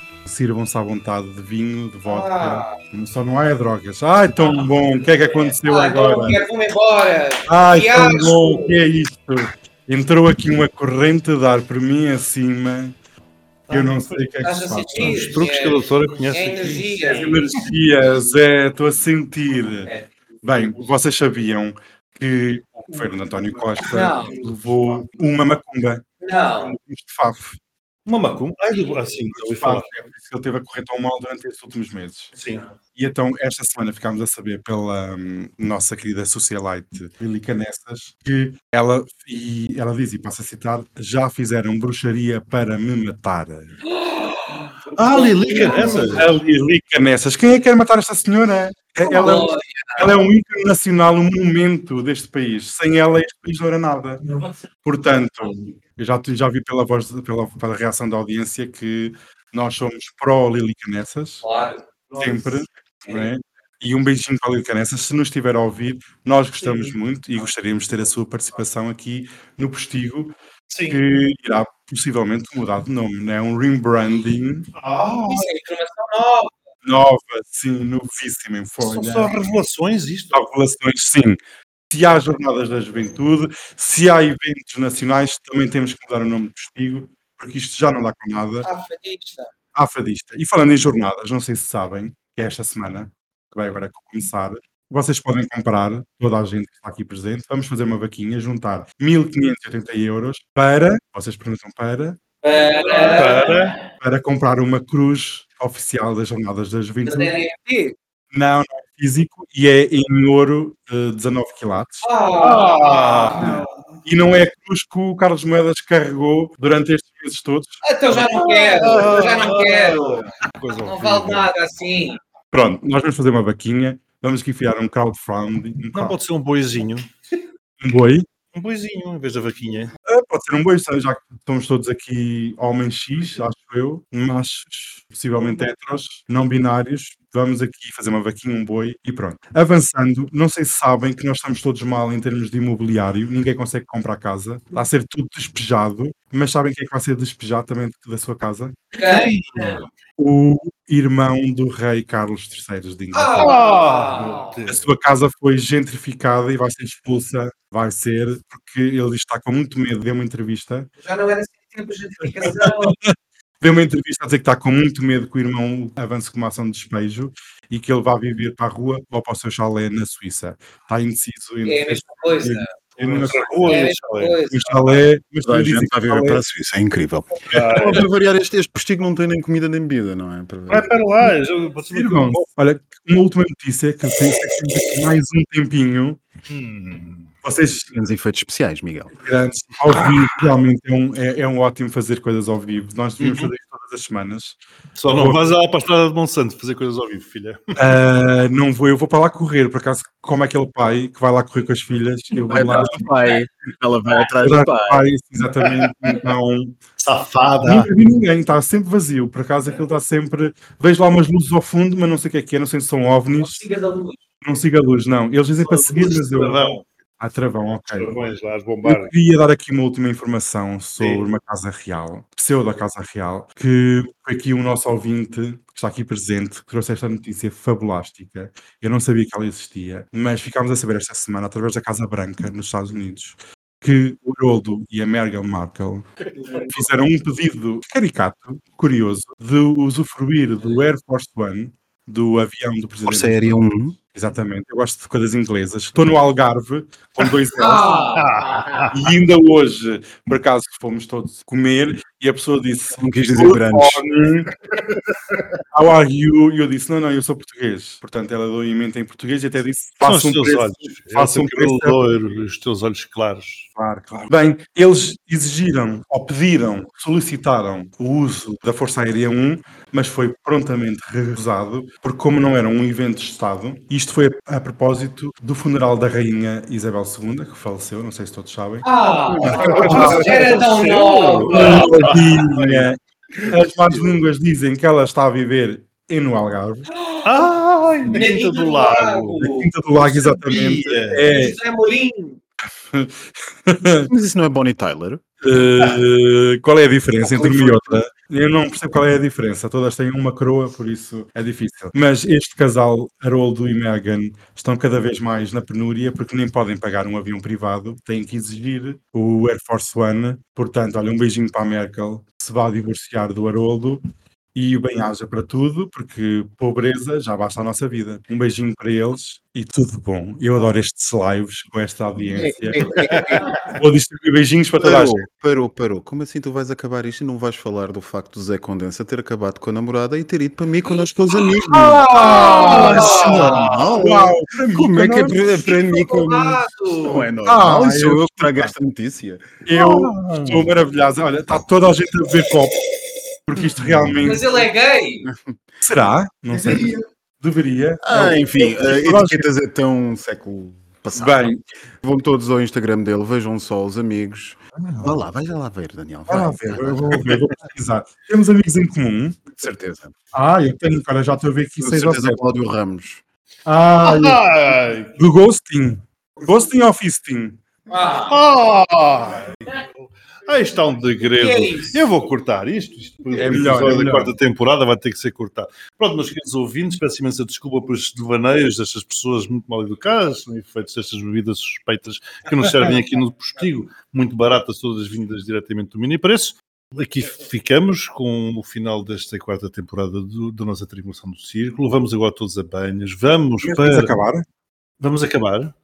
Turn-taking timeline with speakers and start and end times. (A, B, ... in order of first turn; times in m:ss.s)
0:00.2-0:06.4 A
0:02.0-0:02.8 B
0:04.4-0:08.8 B
0:07.5-0:12.9 A
0:13.7-0:15.4 A
0:13.7-0:14.3 C
0:14.4-0:17.4 B
0:14.9-0:17.0 C
0:16.7-0:19.9 A
0:20.4-0:26.0 A
0:22.9-0:25.0 C
0:23.8-0:24.4 B
0:26.2-0:26.8 B
0:26.6-0:27.6 A
0:28.0-0:29.9 C
0:29.2-0:32.3 A
0:32.4-0:32.6 C
0:32.9-0:43.8 A
0:44.0-0:46.2 B
0:44.9-0:46.4 C
0:45.6-0:54.3 A
0:49.0-0:50.1 B
0:54.8-1:01.4 A
1:01.4-1:01.8 B
1:02.2-1:10.3 A
1:06.6-1:06.9 C
1:10.7-1:11.0 C
1:10.9-1:14.7 A
1:14.8-1:15.5 C
1:15.3-1:16.5 B
1:16.8-1:19.3 A
1:18.8-1:20.4 C
1:20.3-1:21.4 A
1:21.9-1:28.7 A
1:28.6-1:29.5 B
1:29.7-1:42.2 A
1:42.4-1:43.8 B
1:42.9-1:43.8 C
1:44.0-1:47.3 A
1:47.0-1:47.9 B
1:48.3-1:52.1 A
1:52.0-1:53.7 B
1:52.4-1:53.6 C
1:54.0-1:57.8 A
1:57.8-2:00.2 B
1:58.1-2:01.6 C
2:00.8-2:02.2 B
2:02.5-2:06.2 A
2:05.9-2:07.1 C
2:07.8-2:08.3 A
2:08.5-2:09.9 C
2:10.1-2:28.9 A
2:28.9-2:29.8 B
2:29.0-2:29.8 C
2:30.2-2:33.5 A
2:33.1-2:34.6 B
2:33.4-2:34.8 C
2:34.7-2:40.9 A
2:41.0-2:43.0 B
2:42.4-2:53.5 A
2:51.6-2:52.8 B
2:53.0-2:54.4 C
2:53.5-2:55.0 B
2:54.5-2:56.4 A
2:55.4-3:00.9 D
2:57.5-2:58.0 C
3:00.7-3:02.4 C
3:01.9-3:06.2 A
3:06.5-3:07.3 C
3:07.4-3:07.9 A
3:07.9-3:09.1 D
3:09.2-3:14.6 A
3:15.0-3:17.7 C
3:15.1-3:15.4 A
3:17.8-3:23.0 A
3:22.5-3:25.0 D
3:24.4-3:26.8 A
3:27.0-3:27.9 C
3:27.6-3:33.6 A
3:33.4-3:34.2 B
3:34.4-3:36.6 A
3:35.6-3:36.8 C
3:37.2-4:07.9 A
3:37.9-3:39.1 C
3:41.0-3:41.2 C
4:03.0-4:04.0 D
4:07.6-4:08.6 B
4:08.0-4:09.0 C
4:08.9-4:14.5 A
4:13.0-4:14.0 D
4:15.7-4:22.0 A
4:20.0-4:23.7 C
4:23.8-4:38.9 A
4:38.8-4:42.1 B
4:39.4-4:44.2 C
4:39.4-4:40.3 A
4:41.5-4:46.9 A
4:46.9-4:47.4 B
4:47.2-4:49.4 C
4:48.1-4:49.7 B
4:49.4-4:51.6 A
4:49.9-4:51.3 C
4:51.2-4:52.4 B
4:52.9-4:54.1 A
4:54.1-4:55.2 D
4:55.4-5:14.0 A
5:14.5-5:25.2 A
5:22.4-5:23.5 D
5:24.8-5:39.5 D
5:31.7-5:35.6 A
5:32.2-5:33.6 B
5:32.9-5:33.5 C
5:35.7-5:37.2 B
5:37.4-5:38.7 A
5:39.6-5:42.8 A
5:39.8-5:40.7 C
5:43.4-5:44.6 A
5:44.2-5:45.2 B
5:45.2-5:45.5 D
5:45.8-5:49.5 A
5:48.0-5:57.4 D
5:51.1-5:51.6 A
5:54.8-5:55.1 A
5:56.3-5:59.6 A
5:59.6-6:00.1 D
6:00.3-6:02.4 A
6:01.8-6:03.2 D
6:03.6-6:04.4 A
6:04.0-6:05.1 C
6:05.2-6:07.6 A
6:07.9-6:08.4 B
6:08.2-6:34.1 C
6:11.2-6:12.1 B
6:13.3-6:14.3 A
6:33.6-6:34.4 A
6:35.0-6:35.7 C